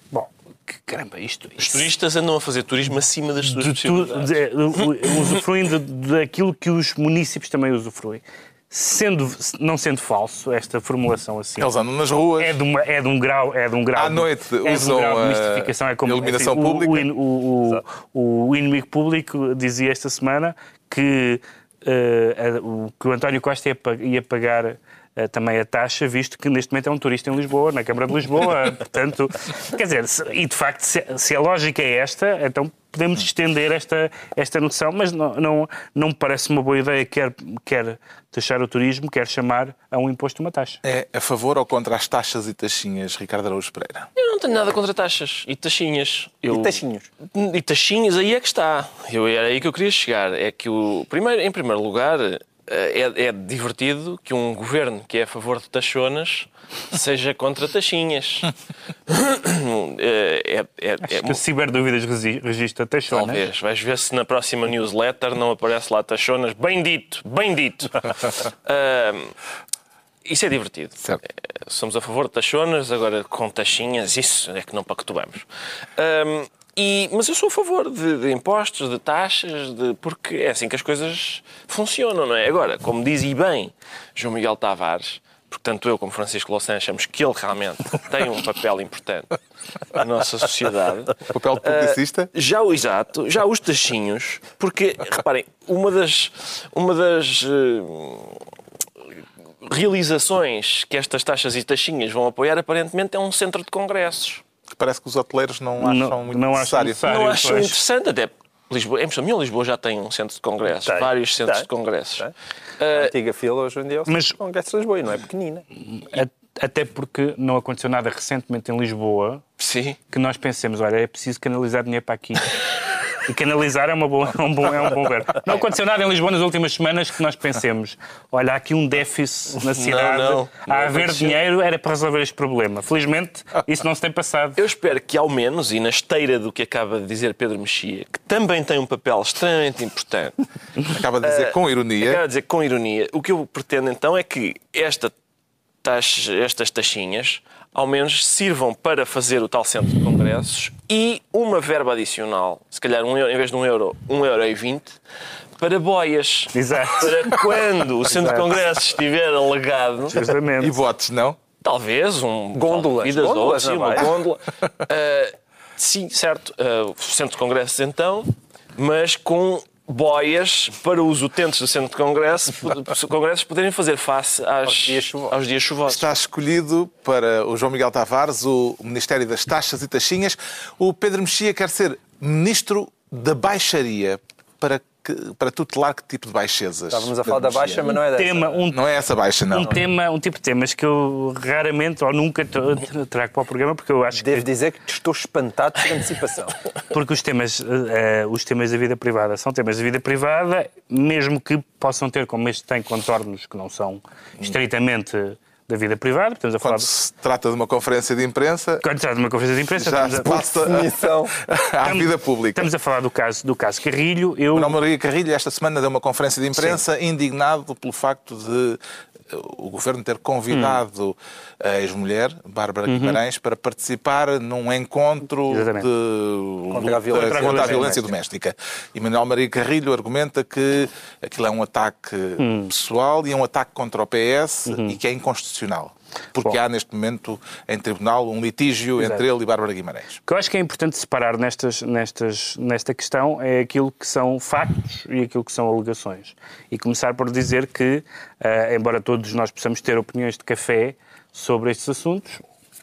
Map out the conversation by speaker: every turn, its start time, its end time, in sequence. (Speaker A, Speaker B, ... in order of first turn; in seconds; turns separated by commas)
Speaker A: 0.1-1.9, Speaker B: 1.6-5.4, Speaker A: 3.5-11.7, Speaker C: 11.6-12.6, Speaker A: 12.4-40.8, Speaker C: 13.9-17.1, Speaker C: 40.8-44.1, Speaker B: 44.2-58.5, Speaker D: 46.5-47.1, Speaker B: 59.1-61.4, Speaker A: 61.0-63.5, Speaker B: 63.1-69.3, Speaker B: 70.2-75.5, Speaker B: 76.0-89.4, Speaker B: 89.9-98.5, Speaker C: 91.3-92.3, Speaker B: 99.6-104.4, Speaker C: 104.8-107.1, Speaker A: 105.8-107.8, Speaker B: 107.0-112.3, Speaker D: 110.8-112.3, Speaker B: 112.8-113.1, Speaker D: 112.9-115.7, Speaker A: 114.1-114.4, Speaker A: 115.9-119.4, Speaker B: 119.6-120.0, Speaker A: 120.1-122.6, Speaker A: 123.2-134.6, Speaker B: 129.6-131.4, Speaker B: 134.6-140.4, Speaker C: 140.9-142.2, Speaker B: 141.2-145.1, Speaker B: 145.8-155.0, Speaker B: 155.6-160.2, Speaker A: 156.5-157.4, Speaker A: 158.1-158.4, Speaker A: 160.1-160.8, Speaker C: 160.6-161.4, Speaker B: 161.6-176.1, Speaker D: 162.5-164.1, Speaker D: 174.7-175.4, Speaker C: 175.9-187.9, Speaker D: 186.9-188.6, Speaker A: 187.8-188.8, Speaker C: 188.7-189.8, Speaker A: 189.5-194.4, Speaker D: 194.2-196.6, Speaker A: 196.9-206.9, Speaker C: 206.6-208.8, Speaker A: 208.8-210.6, Speaker C: 209.8-212.7, Speaker D: 210.3-211.4, Speaker A: 211.8-214.8, Speaker C: 214.5-240.2, Speaker A: 220.5-220.8, Speaker A: 222.9-223.2, Speaker A: 225.5-225.9, Speaker D: 226.7-228.1, Speaker A: 227.1-228.0, Speaker A: 232.4-232.7, Speaker A: 234.7-235.0, Speaker A: 240.3-252.4